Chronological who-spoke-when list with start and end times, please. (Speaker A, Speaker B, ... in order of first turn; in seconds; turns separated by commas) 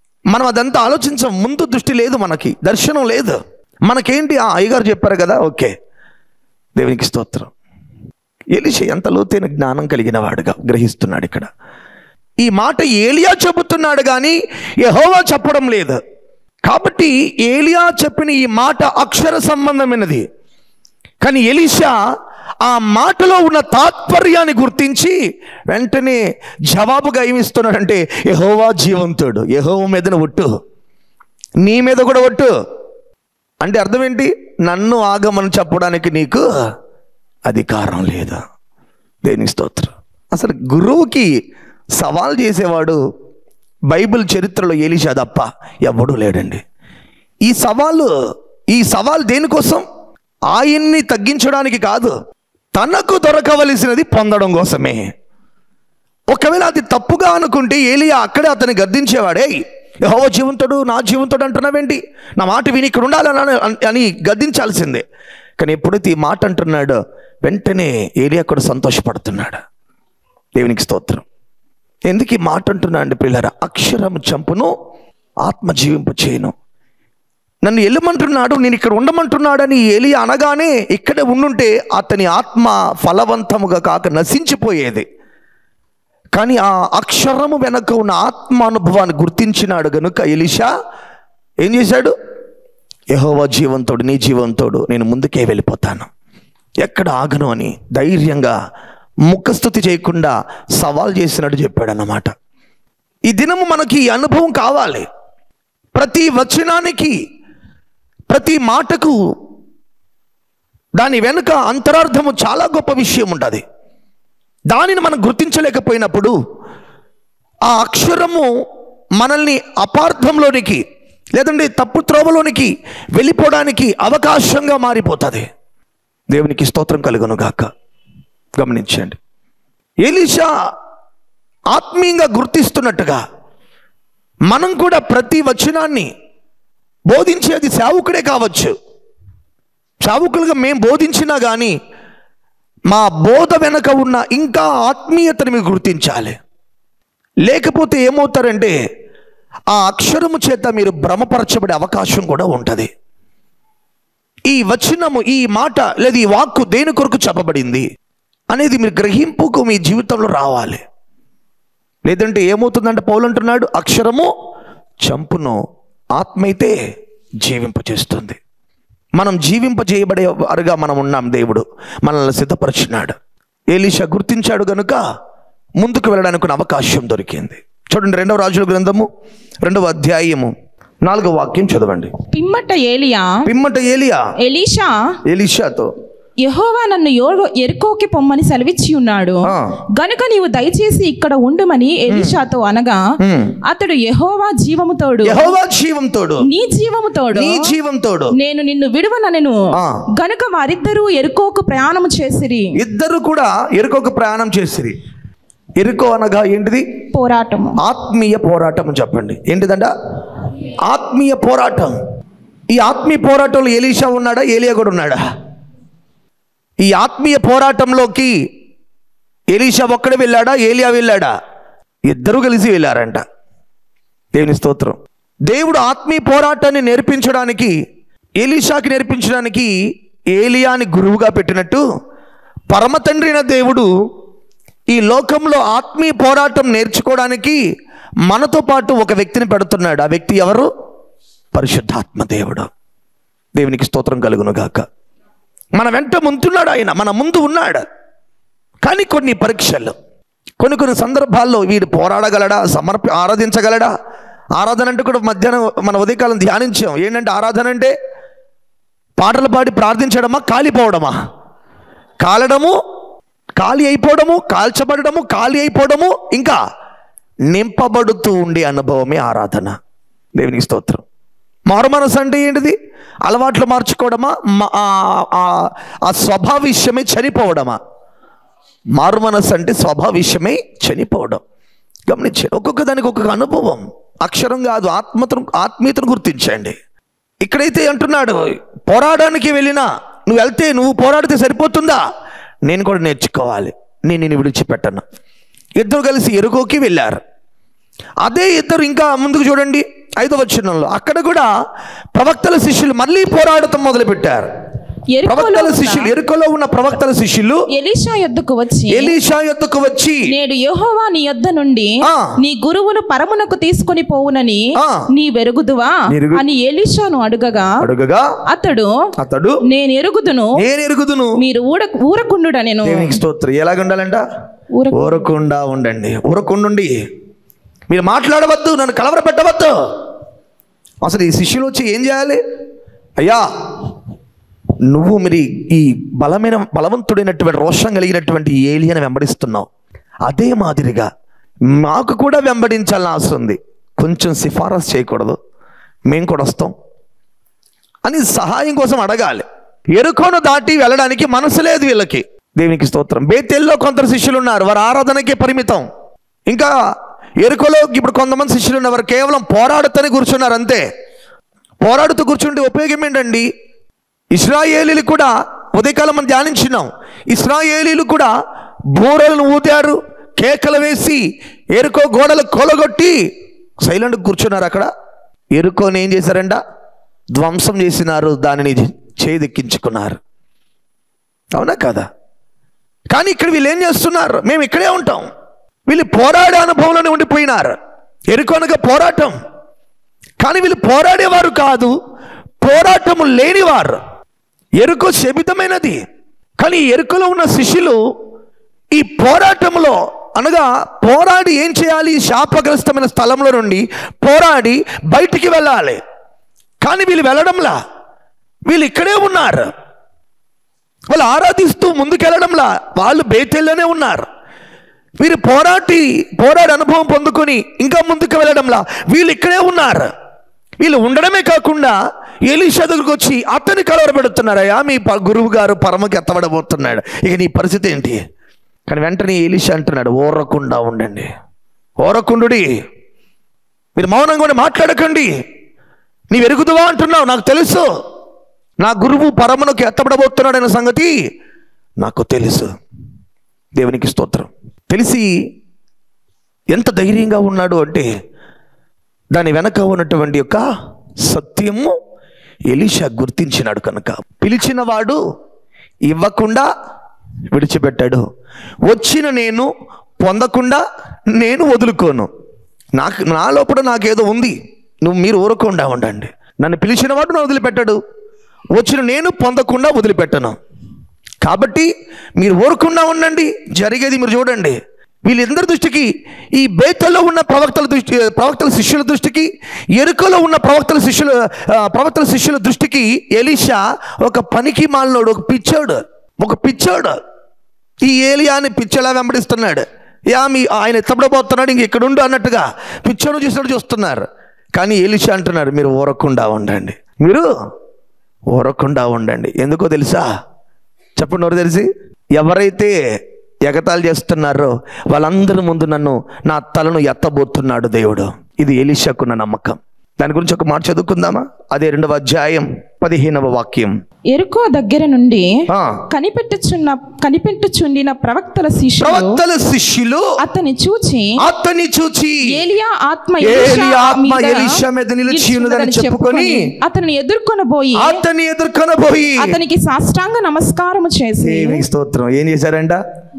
Speaker A: 0.3-5.7, Speaker A: 6.8-7.5, Speaker A: 8.5-11.5, Speaker A: 12.4-16.0, Speaker A: 16.7-20.2, Speaker A: 21.2-21.9, Speaker A: 22.6-25.1, Speaker A: 25.7-30.5, Speaker A: 31.6-32.5, Speaker A: 33.6-36.5, Speaker A: 37.5-38.4, Speaker A: 39.2-41.3, Speaker A: 42.0-43.0, Speaker A: 43.9-46.6, Speaker A: 47.5-48.1, Speaker A: 48.7-49.8, Speaker A: 50.5-52.1, Speaker A: 52.7-55.0, Speaker A: 56.3-65.0, Speaker A: 65.6-69.6, Speaker A: 70.5-71.2, Speaker A: 72.1-74.7, Speaker A: 75.4-76.5, Speaker A: 77.6-85.0, Speaker A: 86.3-90.7, Speaker A: 91.6-92.1, Speaker A: 93.1-96.1, Speaker A: 96.8-98.5, Speaker A: 99.3-102.3, Speaker A: 103.3-105.1, Speaker A: 105.9-107.1, Speaker A: 108.3-109.2, Speaker A: 111.0-113.6, Speaker A: 114.7-116.3, Speaker A: 117.7-118.5, Speaker A: 119.2-120.8, Speaker A: 121.4-125.5, Speaker A: 126.3-127.7, Speaker A: 128.6-129.2, Speaker A: 130.0-130.5, Speaker A: 131.7-133.2, Speaker A: 134.5-136.1, Speaker A: 137.1-138.7, Speaker A: 140.0-141.7, Speaker A: 142.9-146.4, Speaker A: 147.4-148.7, Speaker A: 149.7-152.9, Speaker A: 154.5-157.8, Speaker A: 158.5-160.8, Speaker A: 162.1-164.3, Speaker A: 165.0-165.6, Speaker A: 166.2-166.8, Speaker A: 167.4-168.4, Speaker A: 169.2-173.1, Speaker A: 173.7-175.0, Speaker A: 175.8-179.1, Speaker A: 179.6-180.5, Speaker A: 181.0-182.1, Speaker B: 182.3-183.4, Speaker A: 183.4-184.2, Speaker B: 184.4-184.9, Speaker A: 185.3-185.9, Speaker B: 186.4-193.0, Speaker A: 192.1-192.4, Speaker A: 193.2-193.6, Speaker B: 193.7-195.5, Speaker A: 195.2-196.4, Speaker B: 196.4-197.7, Speaker A: 197.3-198.3, Speaker B: 198.3-199.6, Speaker B: 200.2-202.7, Speaker A: 202.8-204.9, Speaker A: 205.8-206.8, Speaker B: 207.1-207.8, Speaker A: 207.8-209.9, Speaker A: 210.8-211.9, Speaker A: 212.7-215.2, Speaker A: 216.8-218.3, Speaker A: 219.5-221.3, Speaker A: 222.1-223.2, Speaker A: 224.3-227.7, Speaker A: 228.4-229.7, Speaker A: 230.3-231.8, Speaker A: 232.7-233.9, Speaker A: 234.9-237.6, Speaker A: 238.3-240.7, Speaker A: 241.5-242.7, Speaker A: 243.5-244.8, Speaker A: 245.8-247.8, Speaker A: 248.8-249.9, Speaker A: 250.6-253.9, Speaker A: 254.6-257.9, Speaker A: 259.2-261.2, Speaker A: 262.2-262.8, Speaker A: 263.6-266.6, Speaker A: 267.5-269.7, Speaker A: 270.4-271.0, Speaker A: 271.7-277.8, Speaker A: 279.0-281.4, Speaker A: 282.1-286.8, Speaker A: 287.4-292.0, Speaker A: 292.7-295.0, Speaker A: 295.8-297.2, Speaker A: 298.2-301.5, Speaker A: 302.1-304.5, Speaker B: 305.1-306.1, Speaker A: 305.3-307.6, Speaker B: 307.7-309.1, Speaker A: 308.9-310.2, Speaker B: 310.3-317.8, Speaker A: 312.0-312.3, Speaker A: 314.8-315.0, Speaker A: 316.1-316.4, Speaker A: 317.8-318.3, Speaker B: 318.5-318.9, Speaker A: 319.2-319.6, Speaker B: 319.6-320.6, Speaker A: 320.6-321.4, Speaker B: 321.4-323.2, Speaker A: 322.8-324.2, Speaker B: 324.8-325.2, Speaker A: 324.9-326.9, Speaker A: 327.9-329.7, Speaker A: 331.0-332.4, Speaker A: 333.2-333.8, Speaker A: 334.9-339.7, Speaker A: 340.2-341.1, Speaker A: 341.7-345.4, Speaker A: 346.1-346.7, Speaker A: 348.0-355.9, Speaker A: 356.5-356.7, Speaker A: 357.4-360.8, Speaker A: 361.8-363.5, Speaker A: 364.3-368.3, Speaker A: 368.9-371.2, Speaker A: 371.7-373.1, Speaker A: 373.8-374.9, Speaker A: 375.5-376.6, Speaker A: 377.3-380.2, Speaker A: 381.5-382.1, Speaker A: 383.1-385.3, Speaker A: 385.9-387.7, Speaker A: 388.3-389.4, Speaker A: 390.4-391.9, Speaker A: 392.6-394.0, Speaker A: 394.8-396.0, Speaker A: 396.6-398.0, Speaker A: 398.9-406.0, Speaker A: 406.8-407.8, Speaker A: 408.7-409.7, Speaker A: 411.1-414.2, Speaker A: 415.2-420.1, Speaker A: 420.8-428.2, Speaker A: 428.9-431.3, Speaker A: 432.0-432.7, Speaker A: 433.9-435.3, Speaker A: 436.3-437.9, Speaker A: 438.8-441.1, Speaker A: 442.0-442.7, Speaker A: 443.8-445.3, Speaker A: 446.7-448.1, Speaker A: 449.3-450.6, Speaker A: 451.2-451.9, Speaker A: 452.7-455.2, Speaker A: 456.1-456.7, Speaker A: 457.5-458.2, Speaker A: 458.9-462.3, Speaker A: 463.0-468.0, Speaker A: 468.7-470.6, Speaker A: 471.4-487.2, Speaker A: 488.0-497.5, Speaker A: 498.5-500.3, Speaker A: 501.2-502.9, Speaker A: 503.6-513.9, Speaker B: 514.3-515.5, Speaker A: 515.7-516.0, Speaker B: 516.1-519.4, Speaker A: 519.0-520.3, Speaker B: 520.4-521.4, Speaker A: 521.4-522.5, Speaker B: 522.5-528.2, Speaker A: 523.4-526.7, Speaker A: 527.9-529.6, Speaker B: 529.4-531.8, Speaker A: 531.4-533.0